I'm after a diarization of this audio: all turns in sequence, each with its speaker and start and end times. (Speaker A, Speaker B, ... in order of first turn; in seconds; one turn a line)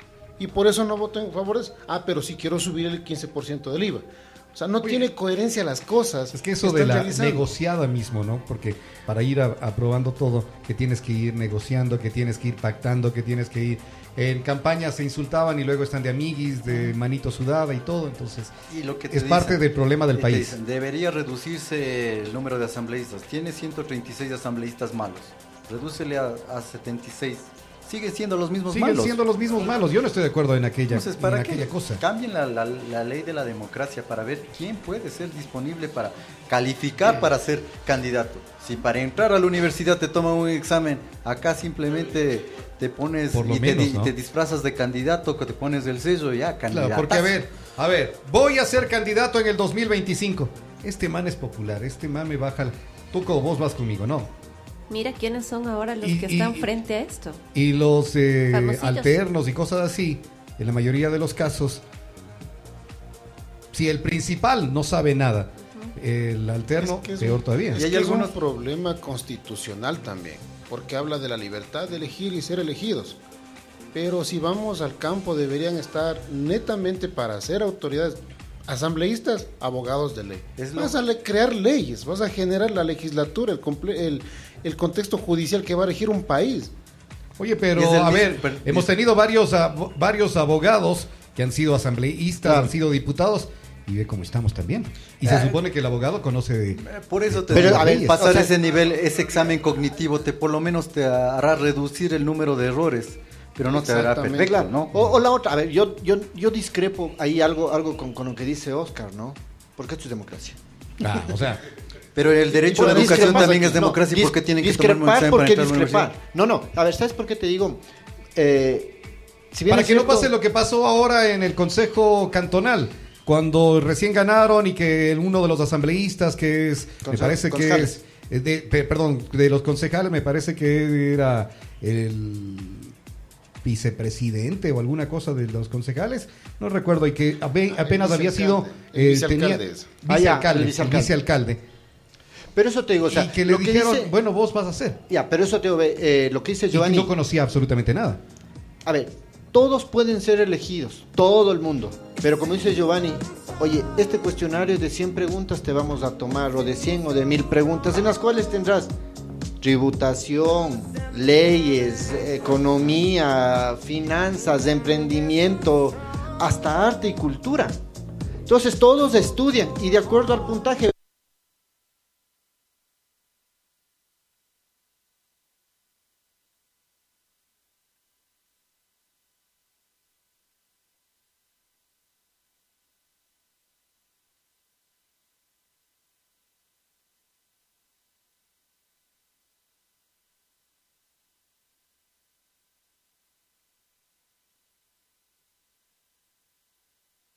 Speaker A: 0.4-7.5
Speaker B: 6.3-18.5
Speaker C: 18.7-29.2
Speaker B: 19.1-20.6
Speaker B: 28.7-32.0
Speaker C: 30.9-47.4
Speaker B: 43.3-44.1
Speaker B: 46.7-54.3
Speaker D: 54.9-57.4
Speaker B: 56.0-56.7
Speaker B: 57.5-61.8
Speaker D: 58.5-59.2
Speaker B: 63.7-67.8
Speaker D: 65.6-65.9
Speaker A: 66.7-73.2
Speaker C: 67.7-68.3
Speaker A: 73.9-86.7
Speaker C: 80.6-81.0
Speaker B: 87.4-98.1
Speaker C: 87.7-88.9
Speaker C: 92.4-92.7
Speaker C: 95.2-95.6
Speaker C: 96.8-105.0
Speaker E: 97.5-98.5
Speaker A: 103.7-104.7
Speaker E: 104.4-110.6
Speaker B: 111.0-111.6
Speaker C: 112.1-116.1
Speaker A: 112.5-114.0
Speaker E: 112.7-117.8
Speaker E: 118.3-119.0
Speaker E: 119.5-120.3
Speaker B: 119.7-132.9
Speaker E: 127.0-127.9
Speaker B: 133.6-141.6
Speaker A: 137.7-139.9
Speaker E: 140.1-141.1
Speaker E: 142.5-144.1
Speaker B: 143.1-145.0
Speaker E: 145.1-147.1
Speaker B: 146.7-148.2
Speaker E: 148.8-158.9
Speaker E: 159.6-167.8
Speaker E: 168.4-170.9